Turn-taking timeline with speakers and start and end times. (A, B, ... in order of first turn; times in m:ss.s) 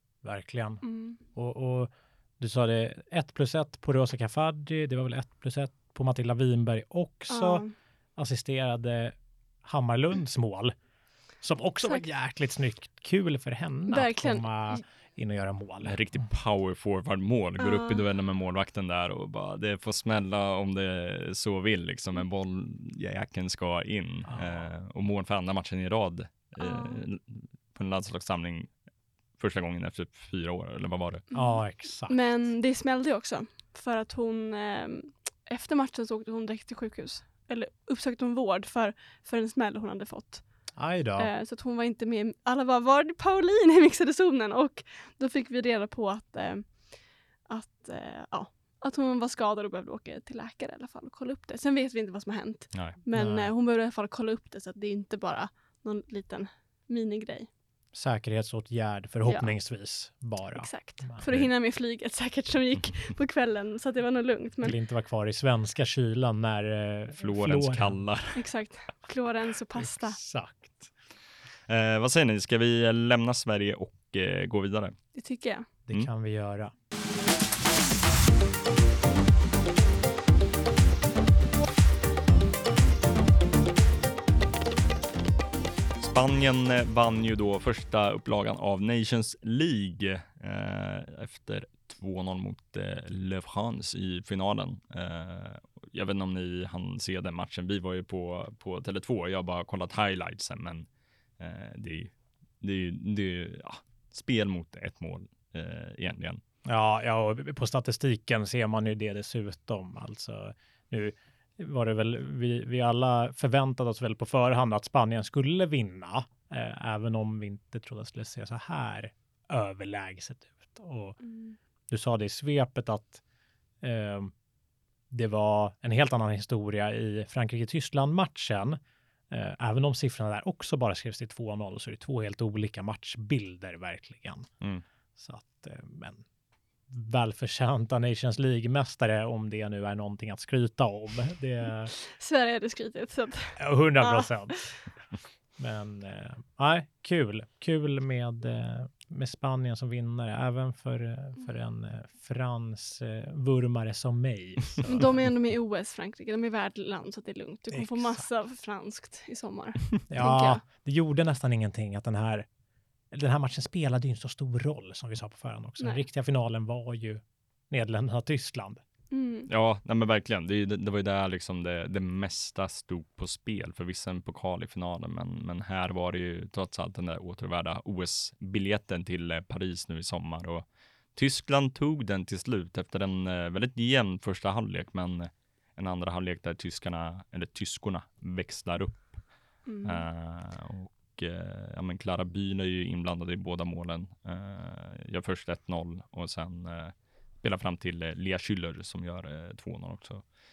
0:00.2-0:00.8 A
0:00.8-0:01.2 B
0:01.3-0:07.6 A
0:07.3-0:07.7 B
0:08.2-0:10.7 A
0:11.4-0:16.0 A
0:13.9-0:14.8 B
0:15.8-0:28.7 C
0:17.6-0:18.0 B
0:24.3-0:24.6 A
0:26.6-0:27.0 B
0:29.4-0:31.2 C
0:31.3-0:40.4 B
0:31.3-0:32.2 A
0:40.8-0:41.3 A
0:41.2-0:46.9 B
0:47.5-0:57.5 B
0:53.1-0:53.5 A
0:57.9-1:01.2 A
0:59.3-0:59.5 B
1:00.6-1:04.8 B
1:04.6-1:08.0 A
1:07.2-1:08.4 C
1:08.3-1:10.2 B
1:09.8-1:10.9 A
1:11.7-1:15.0 C
1:15.1-1:15.7 B
1:15.9-1:16.7 A
1:26.0-1:40.9 C
1:41.4-1:46.4 C
1:46.6-2:01.2 A
2:01.2-2:01.6 B
2:01.9-2:03.2 A
2:03.8-2:04.3 A
2:05.1-2:08.8 A
2:09.3-2:14.5 A
2:15.2-2:16.2 A
2:16.9-2:21.9 A
2:21.9-2:24.7 B
2:23.6-2:24.6 A
2:25.6-2:35.2 A
2:34.9-2:40.6 B
2:37.7-2:38.3 A
2:40.1-2:42.4 A
2:43.1-2:48.8 A
2:49.1-2:49.5 B
2:49.5-3:09.2 C
3:09.6-3:10.0 B
3:09.8-3:20.2 C